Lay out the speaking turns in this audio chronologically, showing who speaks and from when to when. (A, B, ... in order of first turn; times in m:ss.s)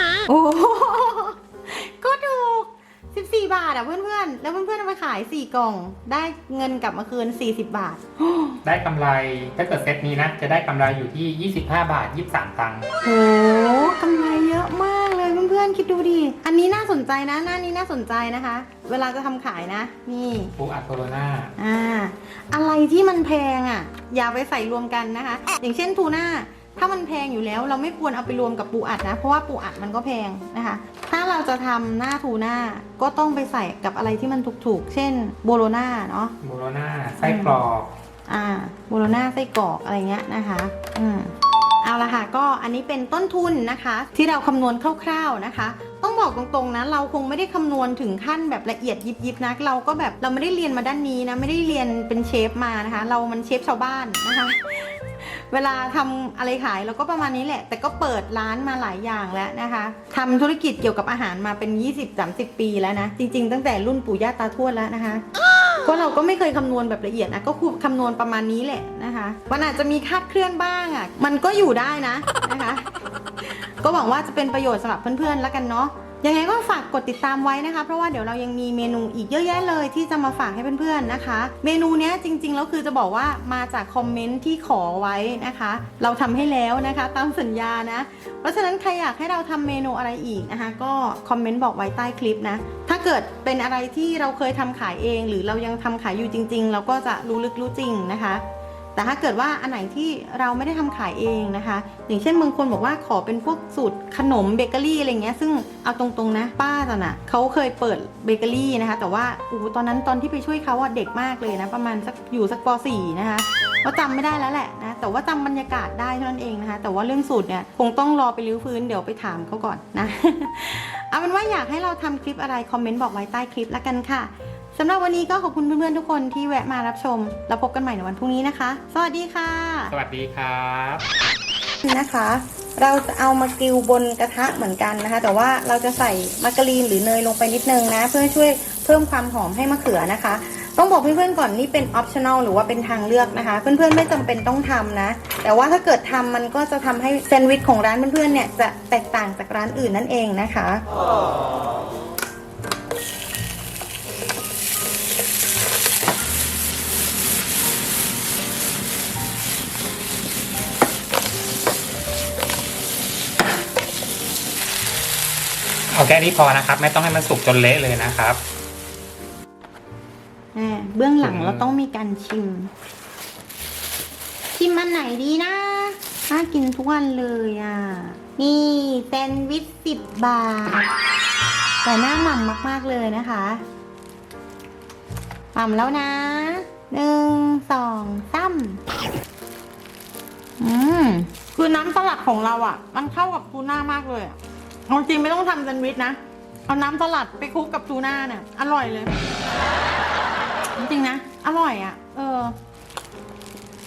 0:00.2-0:08.6 A
0:08.6-0:12.8 B
0:13.0-0:20.5 A
0:20.6-0:21.5 B
0:21.6-0:36.3 A
0:36.4-0:37.9 B
0:37.2-0:37.6 A
0:38.3-1:05.2 A
1:05.8-1:12.8 A
1:13.5-1:38.4 A
1:38.9-2:09.9 A
2:09.9-2:11.0 B
2:11.8-2:30.8 A
2:45.9-2:48.4 B
2:50.5-2:52.7 A
2:51.2-2:51.7 B
2:54.5-3:00.8 A
3:01.8-3:03.6 A
3:05.5-3:08.8 A
3:10.6-3:14.4 A
3:14.9-3:19.2 A
3:20.8-3:22.5 A